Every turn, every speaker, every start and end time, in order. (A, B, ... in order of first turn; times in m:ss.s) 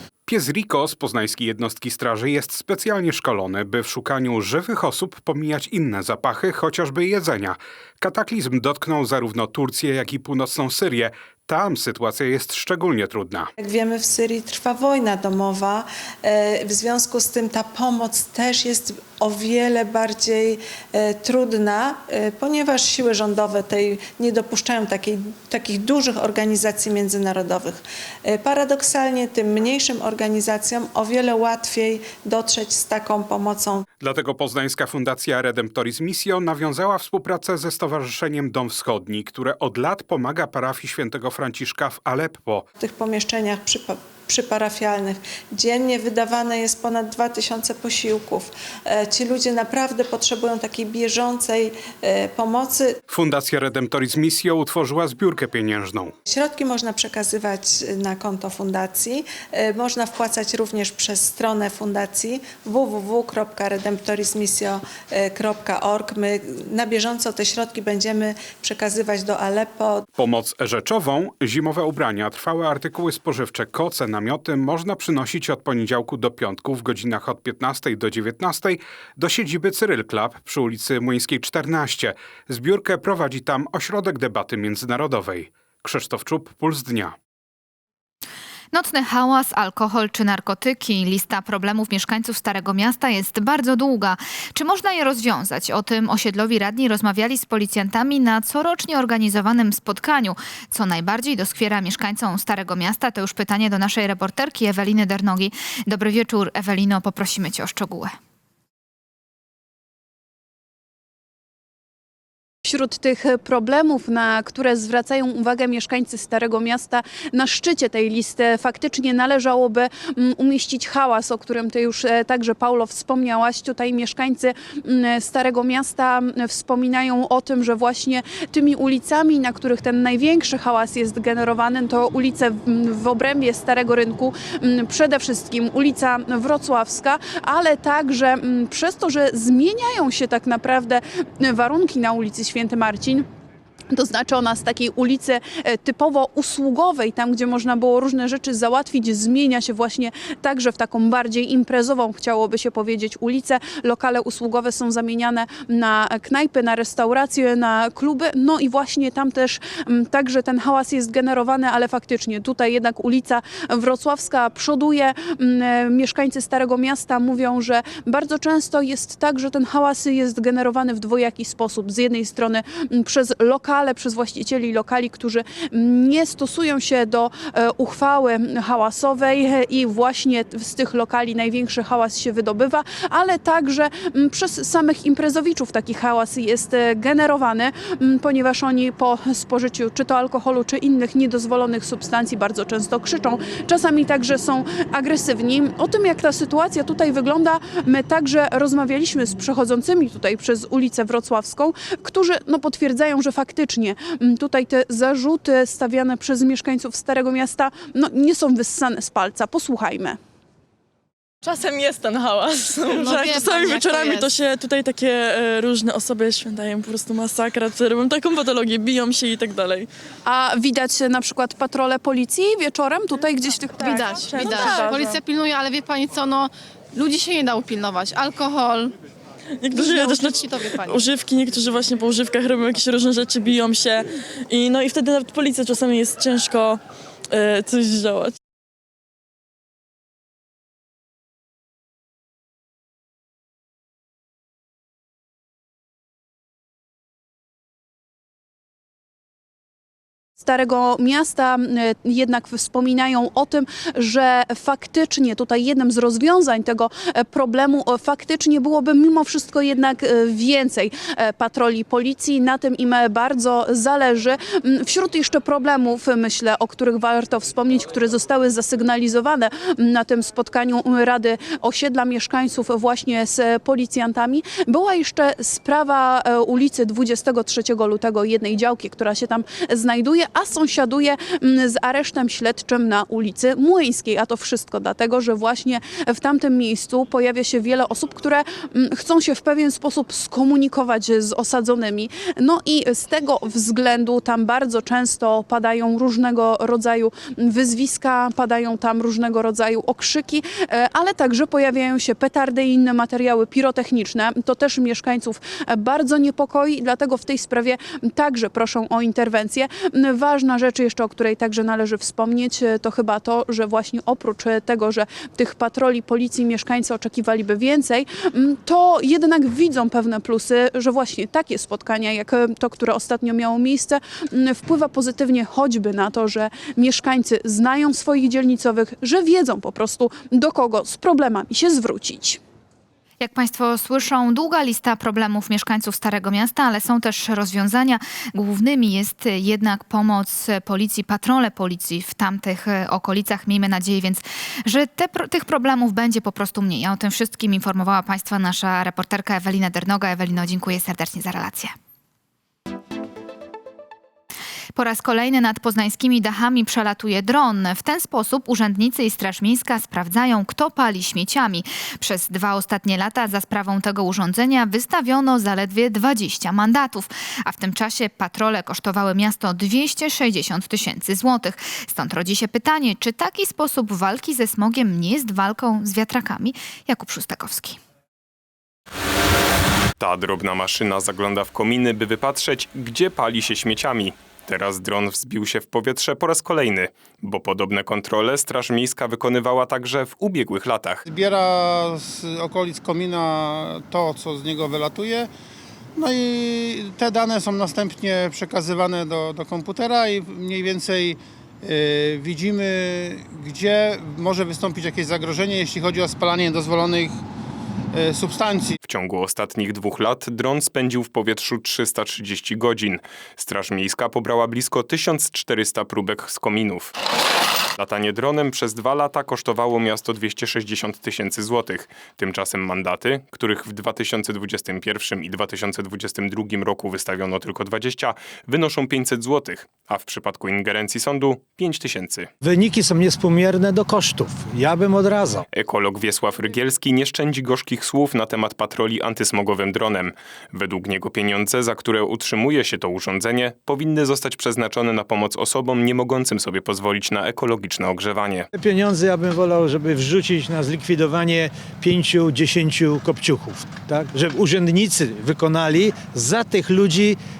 0:00.3-0:13.5 A
0:13.6-0:33.8 B
0:34.0-0:42.6 A
0:42.8-0:53.0 B
0:53.1-0:56.1 A
0:56.3-1:10.0 B
1:10.2-1:27.2 A
1:28.7-1:48.2 C
1:52.6-2:23.3 D
2:23.9-3:30.2 D
3:31.4-3:39.9 E
3:32.8-3:34.3 F
3:40.2-3:45.2 D
3:43.8-3:48.9 F
3:44.5-3:44.8 E
3:49.6-3:58.3 E
3:49.7-3:51.0 F
4:10.4-5:32.4 D
5:33.2-5:51.7 C
5:54.8-6:17.8 C
6:20.0-6:31.0 G
6:31.0-6:35.3 H
6:36.0-6:47.2 H
6:47.9-6:48.8 H
6:48.8-6:56.9 G
6:57.8-7:12.3 G
7:12.4-7:15.4 I
7:15.5-7:28.5 G
7:28.5-7:37.2 I